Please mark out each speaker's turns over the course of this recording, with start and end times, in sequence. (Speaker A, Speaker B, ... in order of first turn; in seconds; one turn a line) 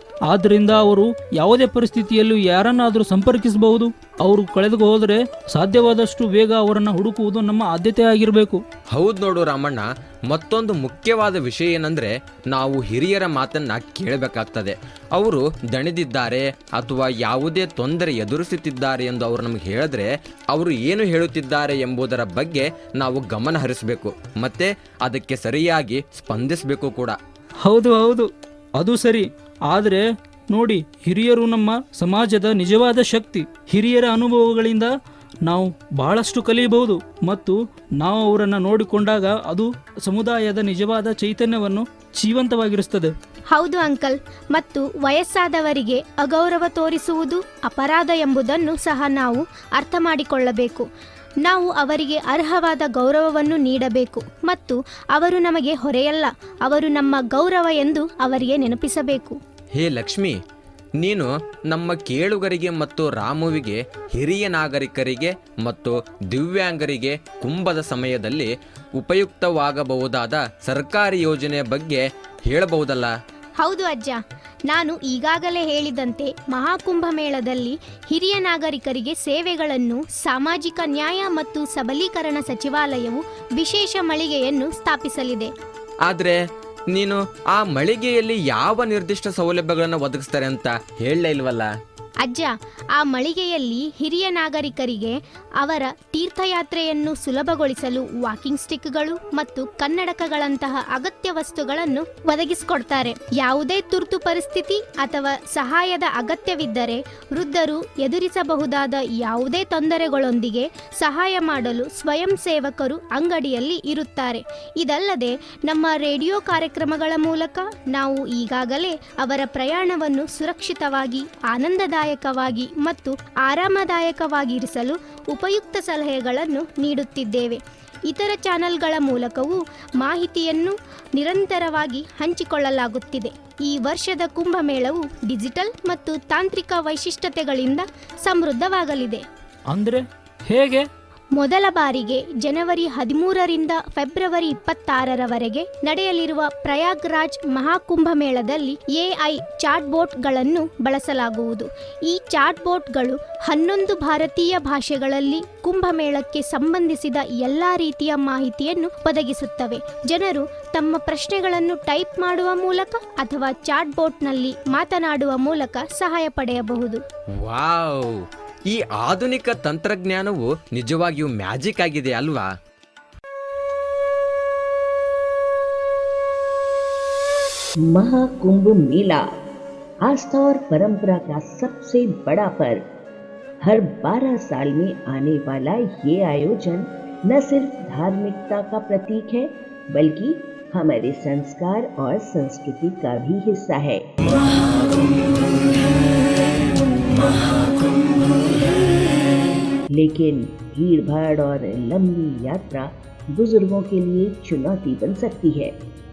Speaker A: 0.3-8.6
Speaker B: 8.9-27.2
Speaker A: 27.6-34.9
Speaker A: 35.5-43.1
Speaker C: 43.5-50.9
Speaker C: 51.4-59.4
Speaker B: 59.8-60.3
Speaker B: 61.0-73.1
Speaker C: 73.6-85.5
Speaker B: 86.1-86.4
Speaker B: 86.9-91.7
Speaker C: 92.2-139.2
Speaker A: 139.7-140.8
Speaker C: 141.4-167.0
Speaker B: 167.4-168.2
Speaker B: 168.7-172.4
Speaker D: 177.8-179.2
Speaker D: 180.0-182.8
Speaker D: 183.6-194.0
Speaker D: 199.9-205.7